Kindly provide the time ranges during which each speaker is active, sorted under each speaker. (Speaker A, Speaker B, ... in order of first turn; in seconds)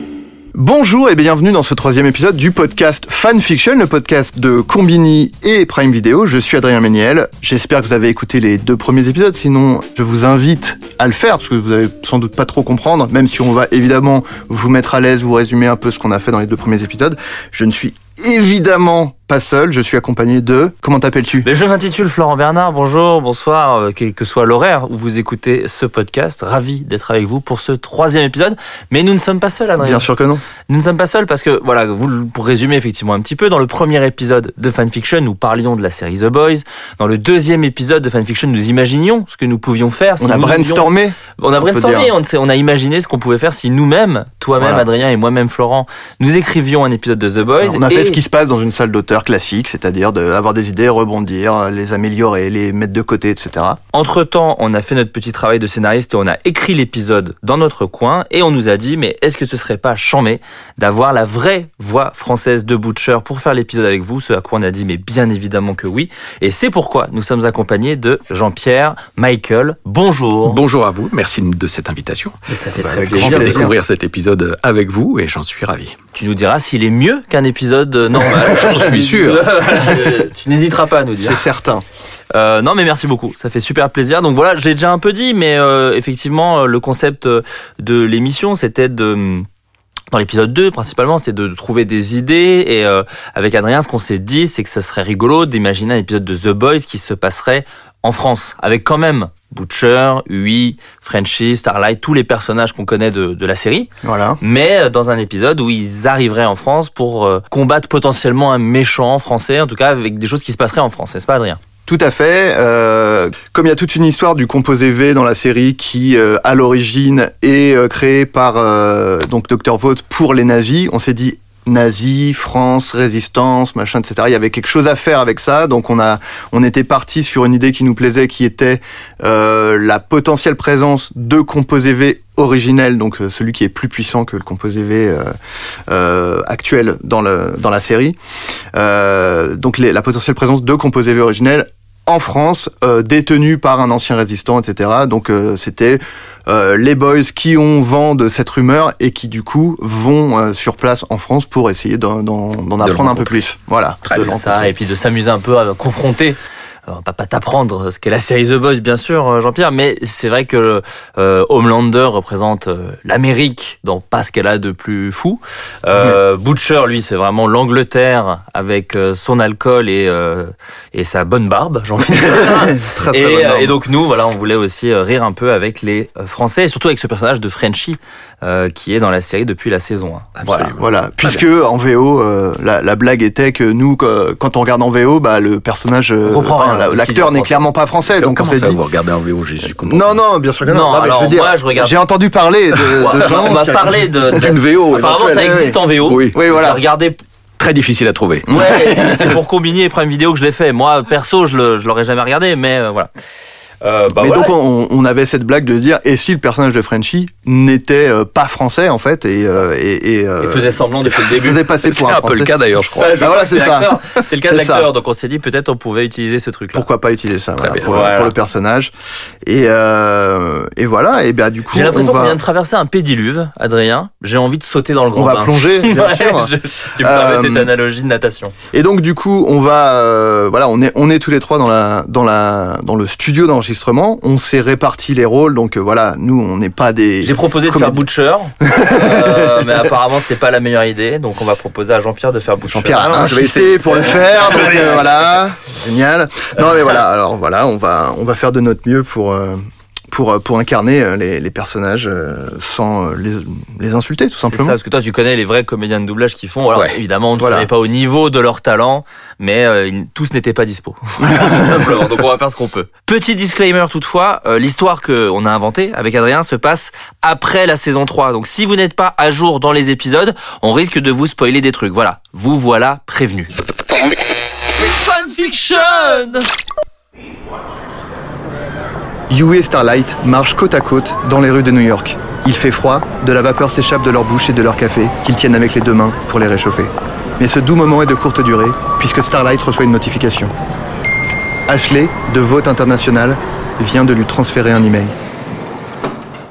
Speaker A: 0.5-21.5, 29.8-30.4, 40.2-42.1, 44.6-44.9, 47.6-53.8, 72.8-73.7, 81.2-81.8, 104.0-104.4, 111.8-135.3, 135.9-138.2, 138.7-154.6, 172.1-173.8, 180.8-188.8, 189.8-194.1, 195.4-196.8, 198.5-199.3, 204.1-214.9, 216.7-218.9, 219.4-222.4, 225.1-227.7, 228.7-238.0, 238.6-239.7, 242.6-254.8, 257.4-257.7, 279.3-290.5, 291.7-295.2
Speaker B: 21.4-30.1, 30.6-48.2, 53.9-70.6, 72.5-73.7, 76.1-81.4, 82.3-89.5, 90.1-103.9, 104.4-111.6, 154.1-180.7, 186.2-187.6, 190.7-192.0, 192.8-197.2, 198.5-203.1, 203.8-204.5, 210.4-211.7, 212.9-216.9, 217.8-218.3, 221.7-228.5, 237.2-244.9, 254.4-273.5, 274.8-276.5
Speaker C: 70.4-72.4, 72.9-76.0, 78.2-79.5, 152.8-153.5, 154.1-154.4, 180.4-181.4, 188.1-190.2, 194.2-196.4, 197.6-199.2, 211.8-213.3, 217.6-218.1